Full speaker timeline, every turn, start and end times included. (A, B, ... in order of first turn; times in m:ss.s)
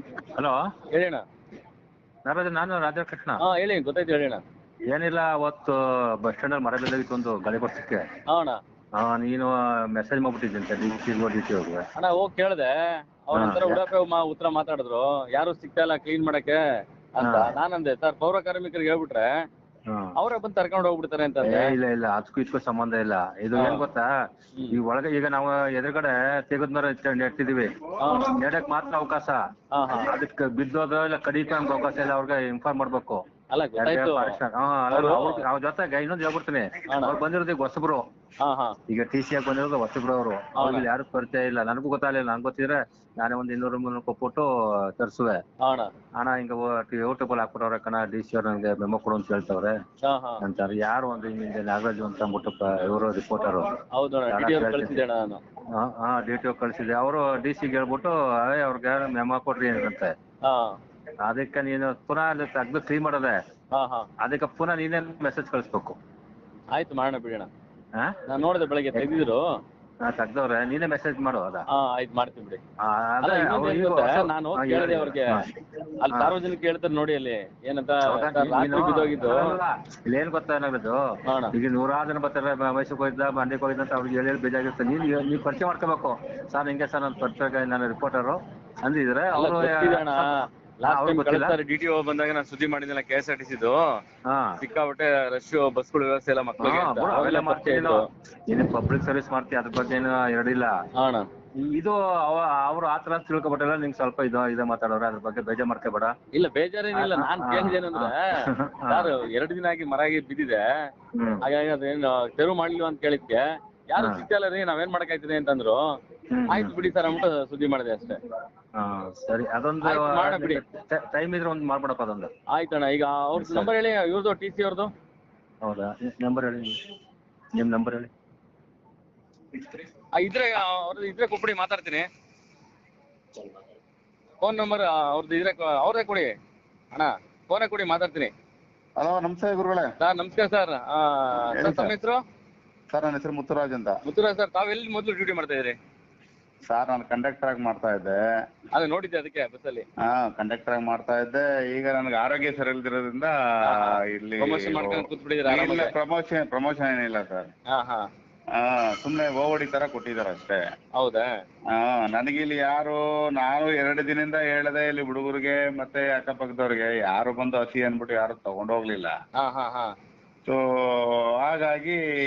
0:00.4-0:00.7 A
0:00.9-0:01.2 B
0:02.2-0:03.4 A
0:03.4-0:04.4 B
0:04.9-0:08.1 A
0:08.3-0:08.6 B
0:09.0-0:11.8 A
0:12.0-0:16.6 B
0:13.3-0:13.8 A
0:17.2-0:19.3 B
0:17.2-0:17.5 A
0:19.9-0:20.1 A
0:20.2-0:21.7 B
0:21.4-0:24.1 A
0:23.6-0:23.9 B
0:24.7-0:33.2 A
0:28.0-0:28.4 B
0:29.7-0:30.1 B
0:33.5-0:34.4 B
0:33.8-0:38.0 A
0:34.9-0:35.5 B
0:36.9-0:37.2 B
0:38.4-0:38.8 B
0:38.9-0:45.4 A
0:40.6-0:40.9 B
0:45.6-0:45.9 B
0:46.2-0:49.8 A
0:50.0-0:50.4 B
0:50.4-0:53.7 A
0:53.9-0:55.4 B
0:54.3-0:55.0 A
0:55.7-1:00.1 A
1:00.4-1:00.8 B
1:01.2-1:03.4 A
1:03.7-1:04.1 B
1:04.2-1:06.0 A
1:06.7-1:07.5 B
1:08.0-1:08.2 A
1:08.3-1:09.5 B
1:10.0-1:11.7 A
1:11.7-1:12.6 B
1:12.8-1:15.5 A
1:13.2-1:15.4 B
1:16.0-1:19.5 B
1:16.1-1:16.4 A
1:18.0-1:21.0 A
1:21.3-1:21.6 B
1:21.5-1:30.3 A
1:29.3-1:34.0 B
1:30.9-1:31.6 A
1:34.3-1:34.6 A
1:34.6-1:38.1 B
1:36.6-1:40.8 A
1:41.0-1:41.3 B
1:41.6-1:46.1 A
1:46.3-1:48.3 B
1:46.9-1:49.2 A
1:48.9-1:50.9 B
1:51.2-1:51.5 A
1:51.4-1:55.8 B
1:54.0-1:54.3 A
1:56.3-1:56.8 A
1:56.5-1:58.2 B
1:58.8-2:02.3 A
1:59.8-2:00.6 B
2:02.5-2:04.9 B
2:03.4-2:03.7 A
2:05.6-2:06.8 A
2:07.6-2:08.1 A
2:10.2-2:12.1 B
2:14.4-2:16.3 B
2:16.9-2:18.3 B
2:19.0-2:19.9 C
2:20.0-2:22.2 B
2:21.5-2:21.9 C
2:22.9-2:24.0 C
2:24.0-2:25.8 B
2:26.7-2:28.2 C
2:28.7-2:29.8 B
2:30.0-2:37.5 C
2:33.6-2:35.9 B
2:37.7-2:38.1 B
2:38.6-2:40.6 C
2:41.0-2:41.3 B
2:41.7-2:49.1 C
2:49.4-2:49.9 B
2:50.5-2:52.0 C